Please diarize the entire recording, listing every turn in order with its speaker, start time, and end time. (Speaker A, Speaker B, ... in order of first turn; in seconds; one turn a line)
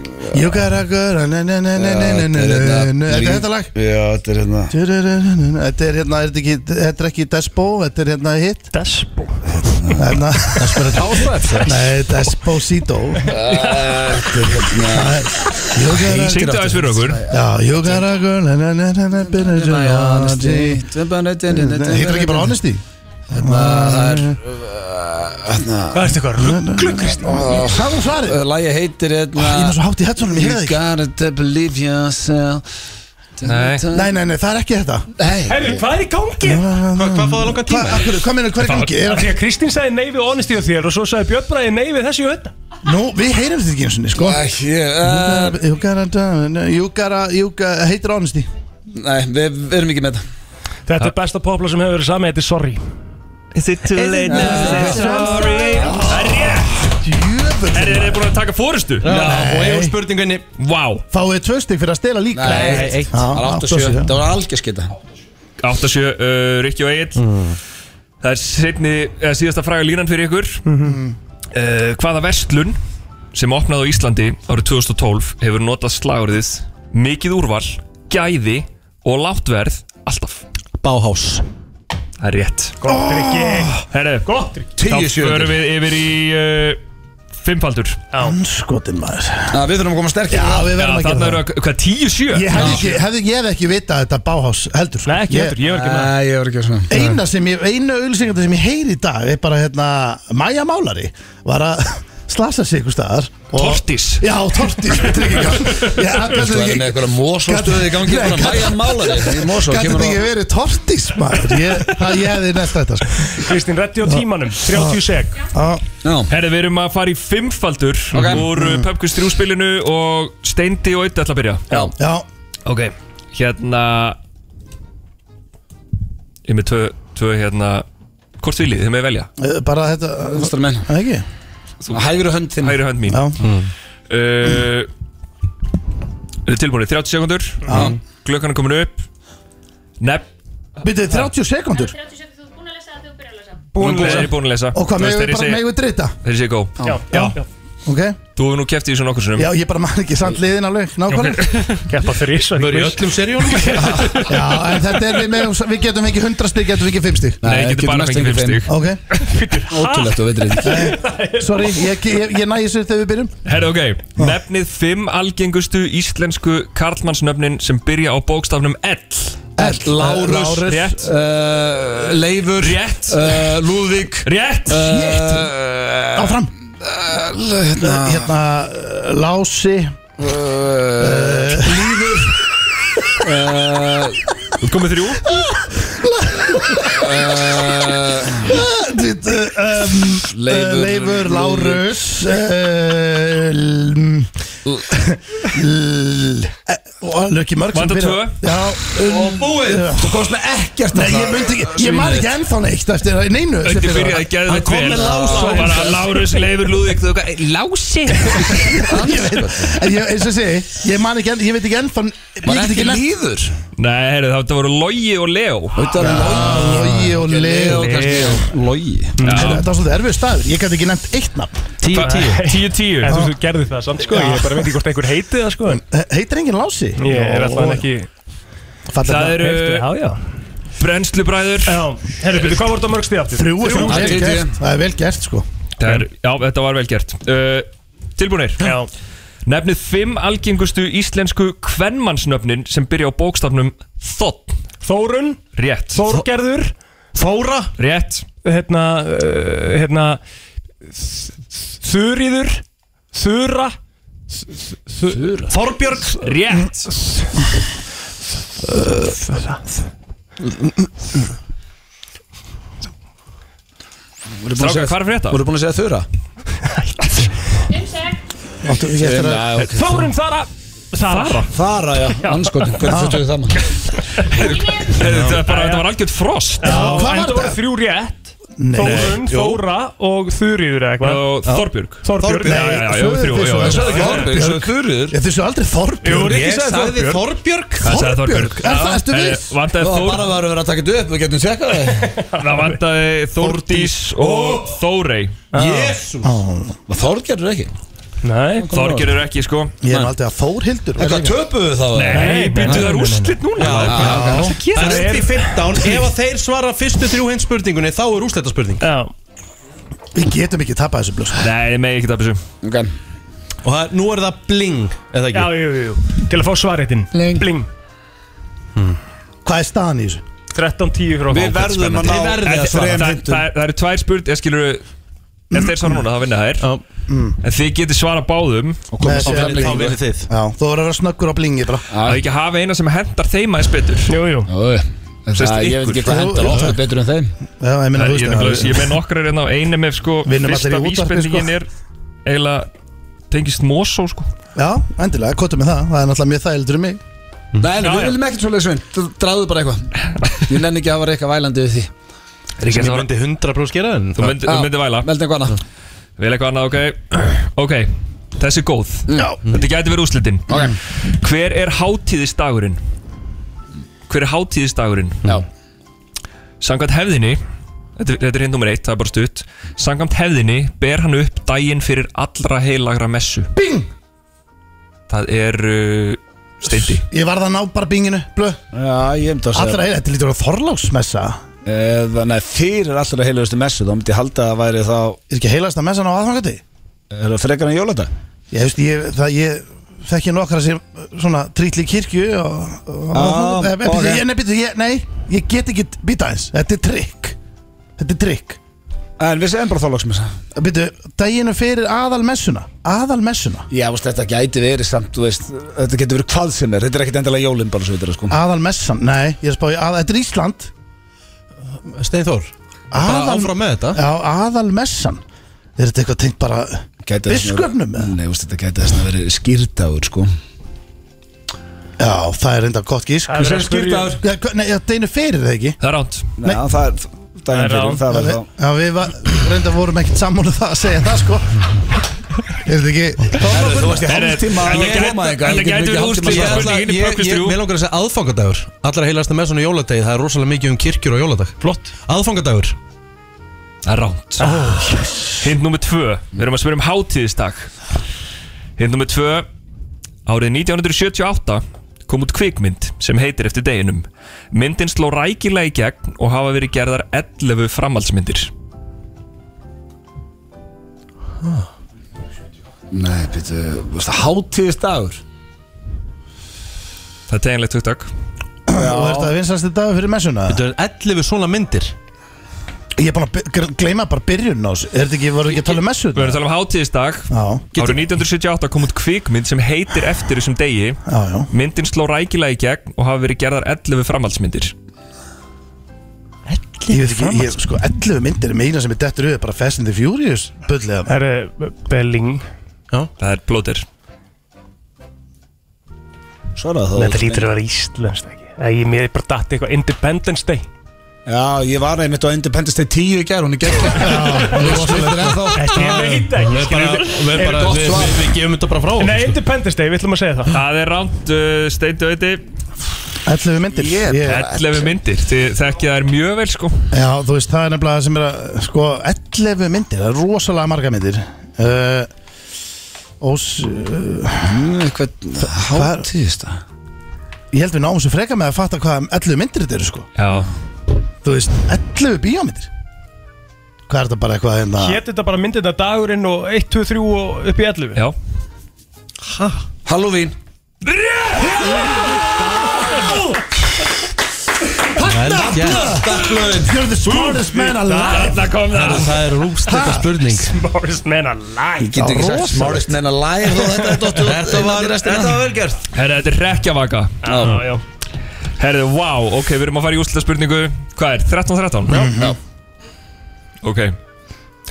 Speaker A: 0.3-3.7
Speaker B: 1.8-4.7
Speaker A: 4.7-8.7
Speaker C: 8.7-9.4
Speaker B: 9.5-10.2
Speaker A: 10.0-11.0
Speaker D: 10.6-11.9
Speaker A: 11.6-13.3
Speaker B: 13.2-18.1
Speaker A: 14.8-16.5
Speaker E: 16.1-17.2
Speaker A: 17.3-20.8
Speaker B: 19.2-22.6
Speaker A: 21.5-22.8
Speaker A: 23.3-24.4
Speaker B: 23.3-26.1
Speaker C: 25.9-27.6
Speaker A: 26.4-28.4
Speaker B: 27.2-32.6
Speaker A: 29.4-30.8
Speaker B: 33.4-34.1
Speaker E: 33.4-33.9
Speaker A: 33.9-35.1
Speaker B: 35.2-35.8
Speaker C: 35.5-36.8
Speaker A: 36.4-39.3
Speaker D: 36.9-38.3
Speaker E: 38.6-38.9
Speaker C: 38.7-42.5
Speaker A: 42.8-44.4
Speaker B: 44.1-45.6
Speaker A: 45.0-48.5
Speaker B: 48.9-50.2
Speaker C: 50.9-52.8
Speaker E: 53.5-57.0
Speaker C: 54.0-55.8
Speaker B: 54.3-56.2
Speaker A: 54.3-58.3
Speaker E: 57.7-59.5
Speaker D: 59.0-60.5
Speaker A: 59.1-60.0
Speaker E: 60.6-61.0
Speaker A: 61.1-64.2
Speaker B: 62.3-64.9
Speaker D: 62.5-63.2
Speaker C: 62.6-63.0
Speaker E: 65.6-67.2
Speaker D: 67.2-67.6
Speaker E: 68.2-70.7
Speaker C: 70.7-71.0
Speaker A: 70.8-71.2
Speaker E: 71.5-72.8
Speaker E: 73.3-80.4
Speaker D: 80.8-81.5
Speaker E: 82.2-82.8
Speaker C: 82.8-84.7
Speaker A: 82.9-83.8
Speaker E: 83.9-84.3
Speaker B: 84.8-85.6
Speaker E: 84.8-86.8
Speaker E: 87.4-88.1
Speaker C: 88.1-88.4
Speaker A: 88.2-89.6
Speaker B: 89.5-90.8
Speaker A: 90.3-91.4
Speaker E: 90.7-92.8
Speaker A: 92.3-95.6
Speaker C: 92.5-92.9
Speaker B: 92.5-92.8
Speaker C: 95.0-96.1
Speaker B: 95.6-96.9
Speaker A: 96.9-113.2
Speaker E: 103.5-104.3
Speaker E: 104.9-105.9
Speaker B: 106.3-110.2
Speaker C: 113.3-115.4
Speaker A: 114.1-115.0
Speaker A: 115.5-115.8
Speaker B: 116.0-116.3
Speaker E: 116.3-121.7
Speaker B: 118.2-118.5
Speaker A: 118.3-118.9
Speaker A: 122.0-122.3
Speaker E: 122.7-124.2
Speaker E: 126.5-127.8
Speaker E: 128.4-129.3
Speaker A: 129.4-131.2
Speaker B: 130.3-130.9
Speaker E: 131.8-133.3
Speaker B: 131.9-133.0
Speaker A: 133.1-133.4
Speaker D: 133.4-133.7
Speaker E: 134.1-134.9
Speaker E: 136.5-139.0
Speaker A: 137.7-137.9
Speaker B: 137.7-138.0
Speaker E: 140.0-140.3
Speaker A: 140.8-142.0
Speaker C: 143.7-144.4
Speaker E: 143.8-145.7
Speaker A: 143.9-146.2
Speaker E: 146.2-146.7
Speaker C: 146.8-147.4
Speaker A: 147.1-148.2
Speaker E: 148.3-149.5
Speaker A: 149.4-151.5
Speaker E: 151.1-151.7
Speaker C: 151.4-154.3
Speaker D: 152.5-154.2
Speaker B: 153.8-154.1
Speaker A: 154.3-157.4
Speaker B: 157.4-158.7
Speaker E: 157.4-158.7
Speaker A: 158.7-159.0
Speaker C: 159.1-161.9
Speaker B: 159.7-160.8
Speaker A: 160.6-163.4
Speaker E: 163.4-169.6
Speaker A: 169.6-171.1
Speaker B: 169.6-178.3
Speaker E: 170.6-171.1
Speaker E: 172.6-173.6
Speaker E: 174.2-175.2
Speaker A: 174.8-175.5
Speaker A: 176.2-176.5
Speaker A: 177.8-180.0
Speaker B: 180.2-182.4
Speaker A: 181.0-182.0
Speaker B: 183.2-184.2
Speaker E: 184.6-185.2
Speaker A: 185.2-194.3
Speaker B: 186.9-188.6
Speaker B: 190.2-191.9
Speaker A: 194.9-200.3
Speaker E: 197.7-198.5
Speaker B: 199.1-202.3
Speaker A: 200.9-204.3
Speaker E: 203.6-208.8
Speaker D: 204.4-206.3
Speaker B: 204.7-205.9
Speaker A: 208.5-213.0
Speaker B: 208.9-209.7
Speaker B: 212.4-213.5
Speaker E: 213.8-215.8
Speaker B: 215.8-219.2
Speaker A: 215.9-218.3
Speaker C: 216.3-216.8
Speaker C: 217.7-218.5
Speaker C: 219.2-219.6
Speaker E: 219.2-219.7
Speaker A: 219.3-221.7
Speaker D: 221.8-222.6
Speaker E: 221.9-223.2
Speaker C: 221.9-225.8
Speaker A: 223.1-223.3
Speaker A: 224.1-224.7
Speaker A: 225.7-227.8
Speaker C: 227.0-228.1
Speaker A: 228.9-229.4
Speaker E: 229.0-229.9
Speaker C: 229.1-230.2
Speaker E: 230.8-232.6
Speaker C: 231.7-234.2
Speaker A: 233.3-235.4
Speaker B: 233.8-234.6
Speaker E: 235.8-238.7
Speaker C: 238.6-238.9
Speaker E: 239.5-244.6
Speaker C: 244.8-246.7
Speaker E: 245.5-246.2
Speaker D: 247.2-247.7
Speaker E: 247.8-248.2
Speaker C: 248.4-250.2
Speaker C: 251.0-253.8
Speaker C: 254.3-257.3
Speaker B: 255.1-255.5
Speaker D: 255.5-256.2
Speaker E: 256.2-256.9
Speaker C: 258.7-259.7
Speaker B: 264.4-266.1
Speaker E: 264.6-265.4
Speaker C: 266.8-267.3
Speaker A: 268.6-269.6
Speaker B: 269.0-270.1
Speaker C: 269.6-271.5
Speaker E: 271.1-271.5
Speaker B: 271.5-273.6
Speaker C: 272.2-272.7
Speaker A: 272.9-273.3
Speaker E: 274.2-276.9
Speaker C: 275.2-275.9
Speaker C: 276.6-281.3
Speaker A: 276.6-277.6
Speaker A: 278.6-279.2
Speaker E: 278.8-279.3
Speaker E: 281.0-284.2
Speaker D: 281.5-282.6
Speaker C: 282.0-282.9
Speaker A: 282.4-286.4
Speaker B: 283.7-285.2
Speaker C: 283.7-284.3
Speaker C: 286.0-287.2
Speaker D: 286.1-287.9
Speaker B: 286.4-287.0
Speaker E: 287.8-290.3
Speaker A: 287.8-289.5
Speaker B: 289.8-292.2
Speaker C: 292.1-292.8
Speaker E: 292.3-295.4
Speaker D: 294.2-294.4
Speaker B: 294.2-294.7
Speaker C: 295.5-296.0
Speaker D: 295.5-296.4
Speaker A: 296.2-296.8
Speaker B: 296.9-297.7
Speaker C: 298.2-298.7
Speaker B: 298.6-299.2
Speaker E: 298.7-299.8
Speaker A: 299.8-301.4
Speaker B: 301.0-302.9
Speaker E: 301.9-305.0
Speaker C: 302.1-303.4
Speaker D: 303.6-308.8
Speaker B: 303.7-304.4
Speaker A: 304.0-304.6
Speaker C: 304.6-306.1
Speaker C: 308.8-309.1
Speaker A: 310.1-311.4
Speaker E: 311.3-312.4
Speaker B: 312.6-312.9
Speaker D: 313.6-315.6
Speaker C: 315.3-317.7
Speaker B: 317.1-317.5
Speaker A: 319.4-320.2
Speaker C: 320.5-322.1
Speaker B: 321.3-323.5
Speaker D: 321.6-323.1
Speaker E: 322.4-324.8
Speaker A: 325.5-326.0
Speaker E: 325.5-326.7
Speaker A: 327.1-327.4
Speaker E: 327.4-328.8
Speaker B: 328.9-330.0
Speaker A: 329.0-331.9
Speaker D: 329.1-330.3
Speaker B: 331.9-332.2
Speaker E: 332.0-334.1
Speaker C: 334.1-334.5
Speaker B: 334.5-337.3
Speaker E: 335.4-336.5
Speaker A: 336.0-336.8
Speaker A: 337.6-338.9
Speaker E: 337.9-341.7
Speaker A: 340.2-341.5
Speaker E: 342.3-342.7
Speaker E: 343.3-344.3
Speaker A: 344.6-347.0
Speaker B: 347.6-349.9
Speaker C: 347.8-348.1
Speaker B: 350.5-351.9
Speaker E: 352.6-353.1
Speaker D: 352.6-354.4
Speaker E: 354.2-355.1
Speaker B: 354.4-355.6
Speaker E: 356.2-362.8
Speaker A: 359.1-359.4
Speaker B: 360.5-360.7
Speaker E: 364.1-365.3
Speaker E: 366.6-367.4
Speaker E: 368.0-373.5
Speaker A: 373.6-373.9
Speaker E: 375.1-377.0
Speaker A: 376.6-378.6
Speaker B: 378.7-379.8
Speaker A: 379.5-381.4
Speaker B: 381.6-385.2
Speaker A: 385.3-386.6
Speaker B: 387.1-388.1
Speaker A: 388.5-397.4
Speaker B: 393.1-394.2
Speaker A: 398.0-398.6
Speaker B: 399.2-400.3
Speaker A: 400.5-403.7
Speaker B: 403.7-408.4
Speaker A: 408.3-410.7
Speaker D: 411.8-414.0
Speaker A: 412.9-415.2
Speaker A: 415.8-418.1
Speaker B: 417.0-420.3
Speaker A: 422.0-423.4
Speaker C: 423.3-424.2
Speaker B: 423.4-424.2
Speaker A: 424.2-425.8
Speaker E: 425.8-426.3
Speaker B: 426.4-428.5
Speaker C: 427.5-428.0
Speaker A: 428.1-431.5
Speaker A: 432.6-433.9
Speaker B: 433.4-436.8
Speaker D: 433.4-434.0
Speaker E: 434.0-437.6
Speaker D: 434.7-435.1
Speaker D: 436.2-442.8
Speaker E: 443.9-444.6
Speaker C: 444.4-445.1
Speaker E: 445.4-447.7
Speaker E: 448.8-449.5
Speaker E: 450.3-458.5
Speaker B: 462.9-465.2
Speaker E: 467.3-468.1
Speaker A: 468.7-470.6
Speaker B: 468.7-469.3
Speaker D: 470.5-471.9
Speaker A: 473.0-476.4
Speaker E: 475.7-484.7
Speaker A: 477.3-477.9
Speaker A: 481.1-481.5
Speaker D: 486.5-487.6
Speaker A: 486.9-491.1
Speaker C: 491.1-492.4
Speaker E: 493.2-493.9
Speaker B: 496.6-497.5
Speaker C: 496.9-500.7
Speaker B: 501.3-506.0
Speaker A: 503.8-505.5
Speaker C: 505.5-508.0
Speaker D: 505.6-509.4
Speaker B: 507.5-508.3
Speaker C: 509.0-510.6
Speaker E: 510.5-512.5
Speaker A: 513.3-514.5
Speaker B: 513.7-515.0
Speaker E: 514.2-516.9
Speaker A: 516.9-522.1
Speaker A: 523.2-524.6
Speaker B: 524.4-526.6
Speaker A: 525.4-526.1
Speaker A: 527.5-530.1
Speaker E: 530.2-530.5
Speaker A: 531.2-532.7
Speaker A: 533.9-535.0
Speaker C: 534.8-538.0
Speaker B: 539.9-540.4
Speaker E: 540.8-542.2
Speaker D: 545.0-546.0
Speaker A: 545.0-548.6
Speaker B: 545.3-546.8
Speaker C: 547.1-548.4
Speaker E: 548.0-549.4
Speaker D: 548.6-550.6
Speaker A: 549.7-550.1
Speaker C: 550.4-552.2
Speaker B: 551.8-555.4
Speaker A: 552.0-553.0
Speaker D: 554.2-555.8
Speaker E: 555.9-557.3
Speaker C: 557.2-557.8
Speaker B: 557.3-557.6
Speaker E: 558.6-562.1
Speaker A: 561.9-562.3
Speaker B: 562.1-562.4
Speaker E: 563.6-564.0